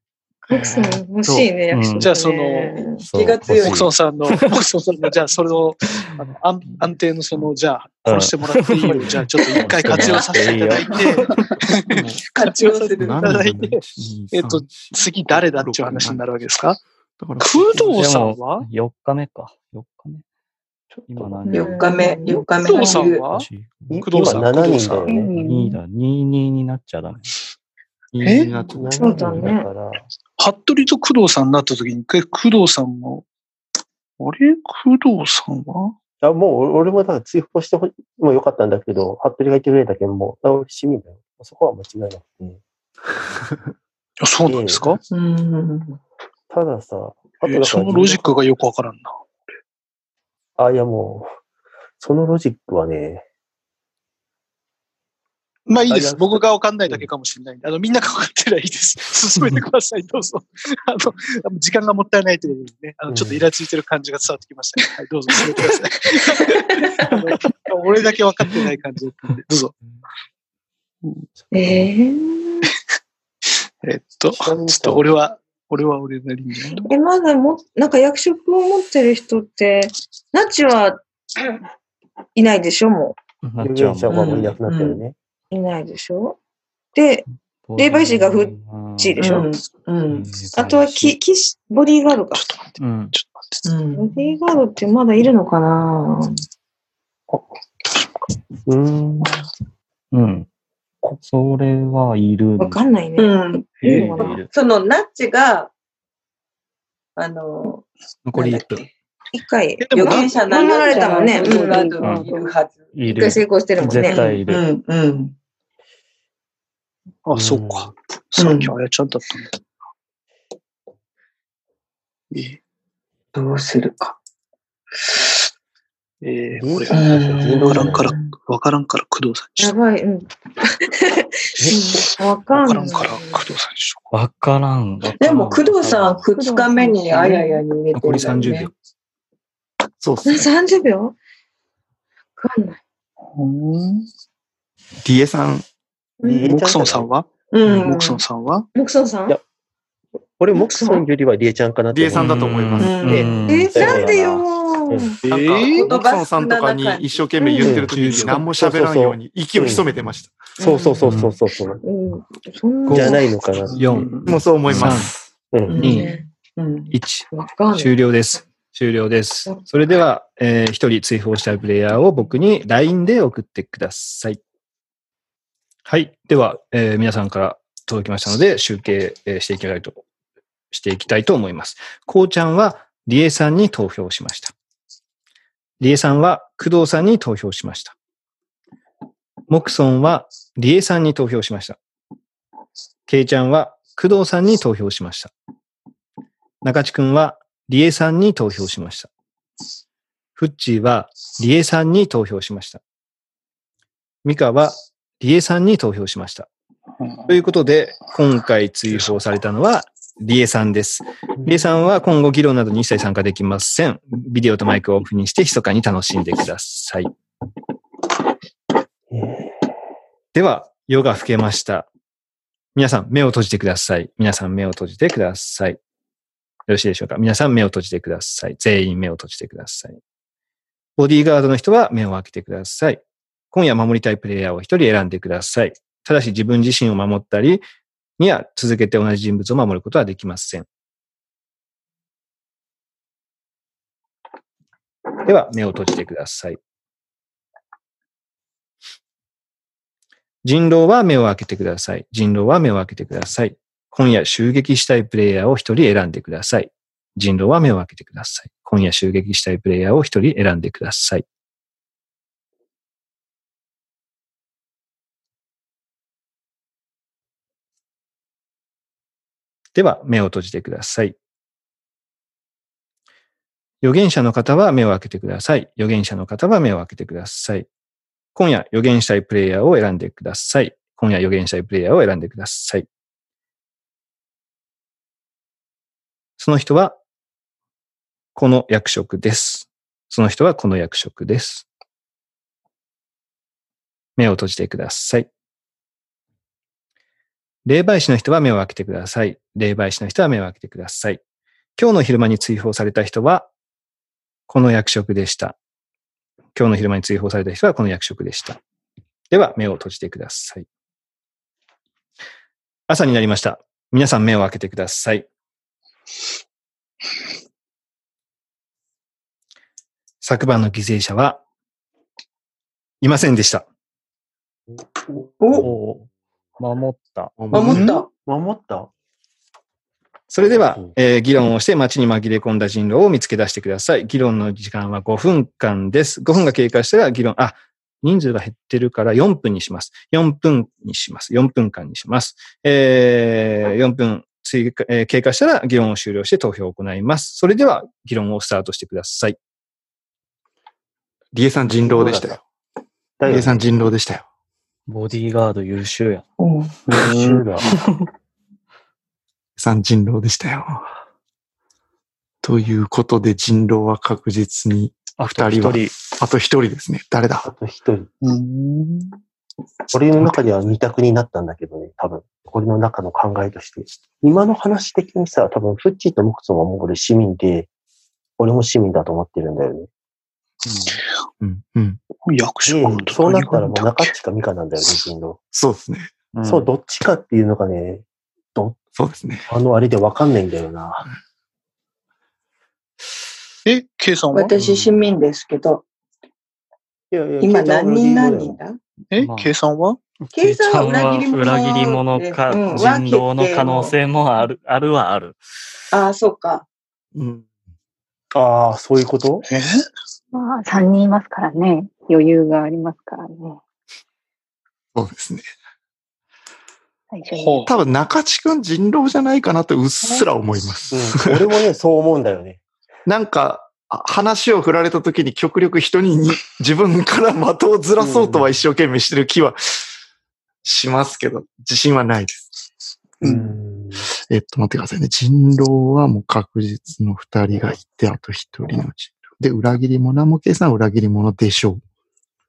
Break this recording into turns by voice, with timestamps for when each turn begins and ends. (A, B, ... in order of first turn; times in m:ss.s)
0:00.5-0:03.0 A
0:00.5-0:01.5 B
0:01.7-0:02.1 C
0:02.0-0:02.9 D
0:03.0-0:03.9 E
0:03.0-0:04.6 C
0:03.5-0:13.8 D
0:08.0-0:11.5 C
0:11.9-0:12.2 B
0:12.3-0:13.3 E
0:13.0-0:16.5 B
0:14.3-0:16.8 D
0:17.2-0:18.1 B
0:17.4-0:18.7 D
0:18.0-0:20.2 C
0:21.0-0:21.9 C
0:21.5-0:23.1 A
0:21.5-0:23.3 E
0:22.5-0:23.5 D
0:23.2-0:24.3 C
0:23.9-0:25.3 F
0:24.0-0:25.1 D
0:25.1-0:25.8 G
0:25.1-0:27.3 C
0:28.1-0:29.2 B
0:28.2-0:28.6 D
0:28.7-0:30.0 F
0:28.9-0:29.7 A
0:30.4-0:33.2 D
0:34.2-0:36.0 D
0:36.2-0:42.6 F
0:44.2-0:45.0 D
0:44.5-0:44.9 F
0:45.1-0:46.0 E
0:46.5-0:48.3 F
0:47.4-0:49.1 D
0:50.6-0:51.3 F
0:52.0-0:53.2 F
0:55.7-1:09.7 D
0:55.9-0:57.0 F
1:03.1-1:03.5 F
1:11.5-1:11.8 F
1:11.5-1:12.7 A
1:13.8-1:16.9 D
1:14.3-1:15.1 F
1:16.9-1:21.0 A
1:22.4-1:23.2 A
1:23.4-1:24.5 C
1:23.6-1:25.2 F
1:24.1-1:25.0 E
1:25.5-1:26.4 A
1:27.0-1:27.2 A
1:27.7-1:29.5 C
1:27.8-1:29.5 A
1:29.2-1:30.3 E
1:30.1-1:31.2 C
1:30.5-1:32.6 A
1:32.3-1:33.6 D
1:32.8-1:33.1 C
1:33.6-1:34.2 E
1:34.0-1:36.3 A
1:38.7-1:39.3 F
1:40.1-1:40.5 C
1:41.2-1:42.9 C
1:42.6-1:44.4 A
1:43.2-1:45.7 E
1:43.8-1:44.2 D
1:43.8-1:44.5 C
1:47.2-1:48.9 E
1:48.3-1:48.8 H
1:49.3-1:52.0 A
1:49.8-1:50.6 D
1:49.9-1:52.9 E
1:50.8-1:52.6 G
1:52.0-1:52.3 C
1:52.9-1:54.7 C
1:53.0-1:54.4 A
1:53.9-1:55.4 E
1:57.3-1:59.5 D
1:57.4-1:57.9 F
1:58.4-1:58.7 E
2:02.3-2:02.6 D
2:03.3-2:04.2 E
2:06.2-2:09.8 D
2:06.6-2:08.1 F
2:06.9-2:08.3 E
2:09.6-2:10.3 A
2:10.8-2:13.4 A
2:11.6-2:12.0 F
2:12.5-2:14.1 D
2:14.1-2:16.3 C
2:15.2-2:18.7 E
2:16.4-2:17.2 G
2:16.4-2:17.6 A
2:17.9-2:18.7 H
2:20.0-2:20.5 B
2:20.2-2:21.2 A
2:22.4-2:22.8 A
2:23.4-2:24.1 D
2:25.0-2:25.6 B
2:26.2-2:27.1 F
2:26.4-2:28.7 D
2:27.5-2:28.2 E
2:28.8-2:29.4 A
2:30.4-2:32.4 F
2:30.5-2:31.1 A
2:31.9-2:33.0 B
2:32.1-2:34.0 C
2:32.8-2:33.5 E
2:33.0-2:35.1 F
2:33.4-2:35.2 A
2:35.2-2:35.9 D
2:35.3-2:40.4 B
2:35.8-2:37.3 E
2:37.4-2:37.8 A
2:37.6-2:39.9 F
2:38.0-2:38.4 H
2:40.6-2:41.8 F
2:40.6-2:40.9 E
2:40.6-2:41.0 A
2:41.0-2:41.4 C
2:41.8-2:43.4 A
2:42.9-2:43.2 H
2:42.9-2:43.8 F
2:43.7-2:44.4 D
2:43.8-2:44.1 H
2:44.3-2:45.2 B
2:44.7-2:45.1 H
2:44.8-2:45.0 C
2:45.5-2:45.9 F
2:45.7-2:46.9 E
2:45.8-2:46.1 H
2:45.9-2:46.2 A
2:46.9-2:54.4 H
2:47.3-2:47.9 A
2:55.9-3:00.0 H
3:00.7-3:04.5 H
3:05.8-3:07.9 H
3:09.5-3:11.8 H
3:13.1-3:15.3 H
3:16.6-3:19.1 H
3:20.4-3:22.8 H
3:24.2-3:26.5 H
3:27.0-3:27.3 D
3:27.3-3:37.1 H
3:31.4-3:31.7 F
3:39.1-3:39.5 F
3:40.3-3:41.9 H
3:42.8-3:45.8 H
3:46.7-3:50.0 H
3:51.0-3:57.6 H
3:58.2-4:00.7 H
4:05.3-4:06.6 H
4:10.4-4:21.2 H
4:29.8-4:31.2 H
4:33.8-4:37.7 H
4:38.4-4:42.8 H
4:46.4-4:47.0 H
4:48.4-4:51.6 H
4:54.2-4:55.3 H
4:57.7-5:01.2 H
5:01.8-5:03.5 H
5:04.5-5:05.6 H
5:06.6-5:08.6 H
5:09.3-5:10.7 H
5:12.9-5:15.3 H
5:20.2-5:21.4 H
5:23.0-5:23.6 H
5:25.2-5:25.7 F
5:25.4-5:25.7 E
5:25.6-5:26.1 C
5:26.6-5:27.4 C
5:27.4-5:27.9 B
5:27.5-5:28.1 E
5:27.6-5:28.0 D
5:28.2-5:28.9 F
5:30.3-5:49.4 H
5:51.3-5:52.4 B
5:51.8-5:52.4 F
5:53.2-5:53.6 F
5:53.3-5:54.2 B
5:54.9-5:56.2 C
5:56.4-5:56.8 E
5:56.9-5:57.7 F
5:57.0-5:57.5 D
5:59.6-6:00.9 B
6:02.4-6:07.5 B
6:05.2-6:05.9 C
6:07.4-6:08.1 F
6:08.2-6:09.2 D
6:09.9-6:17.7 F
6:18.4-6:19.9 F
6:20.6-6:21.0 C
6:21.4-6:22.0 B
6:22.3-6:24.1 D
6:22.7-6:25.4 F
6:25.5-6:26.1 B
6:26.4-6:26.7 C
6:26.4-6:28.0 F
6:29.0-6:29.5 B
6:29.5-6:31.1 F
6:33.7-6:34.6 D
6:34.3-6:35.8 E
6:34.6-6:35.0 C
6:37.1-6:38.6 F
6:37.4-6:38.8 E
6:39.1-6:40.0 D
6:39.2-6:39.5 C
6:40.2-6:45.4 C
6:40.3-6:44.0 E
6:45.9-6:46.6 E
6:47.1-6:47.4 B
6:48.3-6:49.4 F
6:49.5-6:49.9 D
6:50.3-6:53.6 G
6:55.0-6:55.4 B
6:57.1-6:57.7 G
6:57.4-6:57.7 D
6:57.7-7:01.4 B
7:00.9-7:02.6 F
7:03.1-7:09.9 B
7:08.0-7:08.5 F
7:10.6-7:12.5 B
7:13.2-7:13.6 D
7:13.2-7:14.1 F
7:14.3-7:21.8 B